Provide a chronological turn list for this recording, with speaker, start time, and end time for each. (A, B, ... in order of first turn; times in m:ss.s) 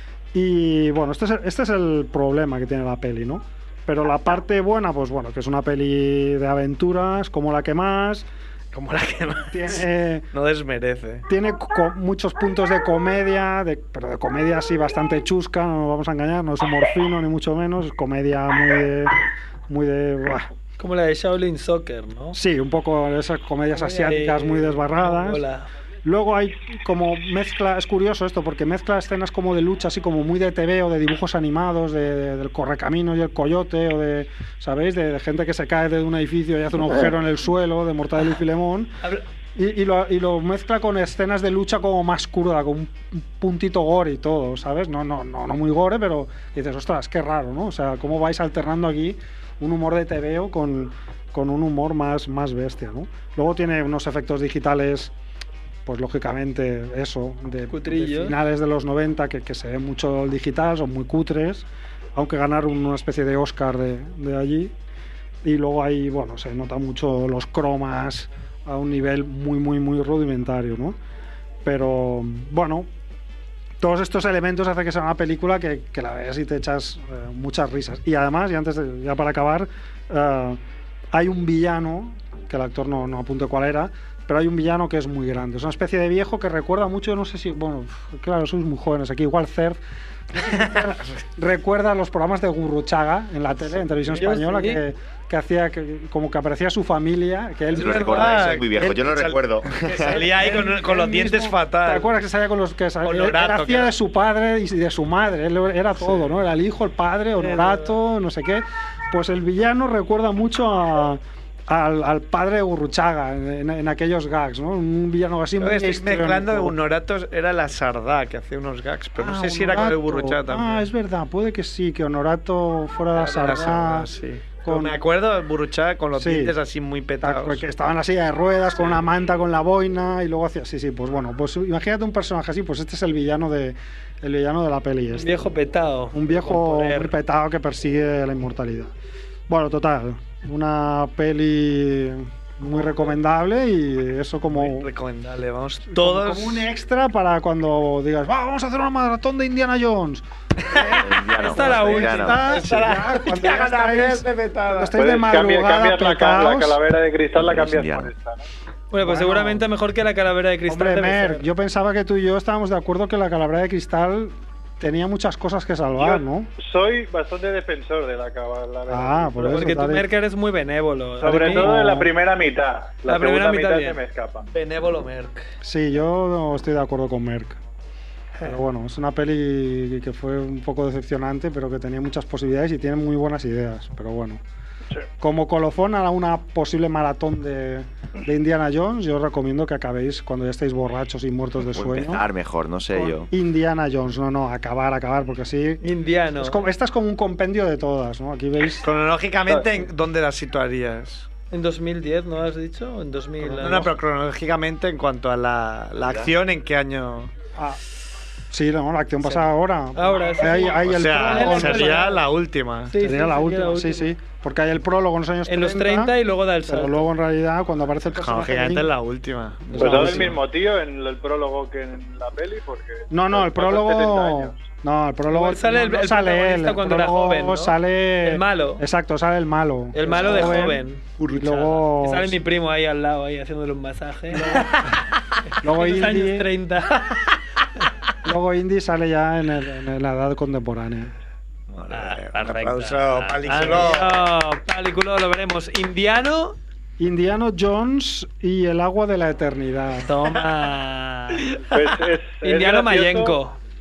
0:00.3-0:08.3 A
0:08.7-0:11.3 B
0:09.5-0:10.3 A
0:11.3-0:19.2 A
0:19.7-0:20.5 A
0:20.8-0:22.4 C
0:22.3-0:25.4 A
0:23.7-0:25.7 C
0:26.0-0:39.0 A
0:39.6-0:55.1 A
0:55.9-1:04.7 A
0:57.7-0:58.3 C
1:05.4-1:11.0 A
1:11.6-1:12.9 A
1:13.8-1:20.6 A
1:21.1-1:38.9 A
1:34.1-1:34.8 C
1:37.7-1:42.1 B
1:37.8-1:40.2 D
1:40.2-1:56.8 A
1:43.0-1:43.9 B
1:47.4-1:48.0 C
1:55.6-2:00.8 B
1:59.2-2:04.1 A
2:03.1-2:07.6 B
2:04.6-2:05.0 A
2:06.2-2:06.6 A
2:07.2-2:15.5 A
2:15.1-2:17.1 C
2:16.1-2:18.9 A
2:19.5-2:24.9 A
2:24.5-2:26.7 B
2:25.9-2:36.8 A
2:31.0-2:32.4 D
2:31.4-2:32.4 C
2:32.2-2:35.0 B
2:35.0-2:38.4 E
2:37.4-2:38.1 D
2:38.9-2:41.5 C
2:39.0-2:39.6 A
2:40.7-2:46.5 A
2:45.9-2:49.8 E
2:48.9-2:50.1 A
2:49.4-2:51.7 C
2:51.2-2:54.5 E
2:51.2-2:52.1 A
2:53.1-2:54.0 C
2:54.5-2:55.5 B
2:55.6-2:57.6 A
2:58.4-3:04.4 A
3:05.2-3:12.2 A
3:11.7-3:13.3 D
3:12.9-3:15.8 A
3:15.8-3:16.6 C
3:16.4-3:18.9 A
3:18.8-3:21.3 B
3:21.5-3:24.0 C
3:23.4-3:27.3 B
3:27.6-3:27.8 A
3:28.5-3:32.1 A
3:29.2-3:32.2 C
3:30.6-3:33.0 B
3:32.9-3:34.1 C
3:33.0-3:36.2 A
3:35.5-3:37.1 C
3:36.7-3:38.9 A
3:38.1-3:40.4 B
3:39.8-3:40.3 A
3:39.8-3:44.6 E
3:43.1-3:52.4 A
3:45.3-3:48.8 C
3:49.9-3:55.0 C
3:54.3-3:54.9 A
3:55.6-3:56.5 A
3:55.6-3:57.4 C
3:58.2-4:01.1 A
4:01.7-4:04.2 B
4:01.9-4:06.6 C
4:07.0-4:10.2 A
4:10.0-4:13.6 C
4:11.7-4:13.4 E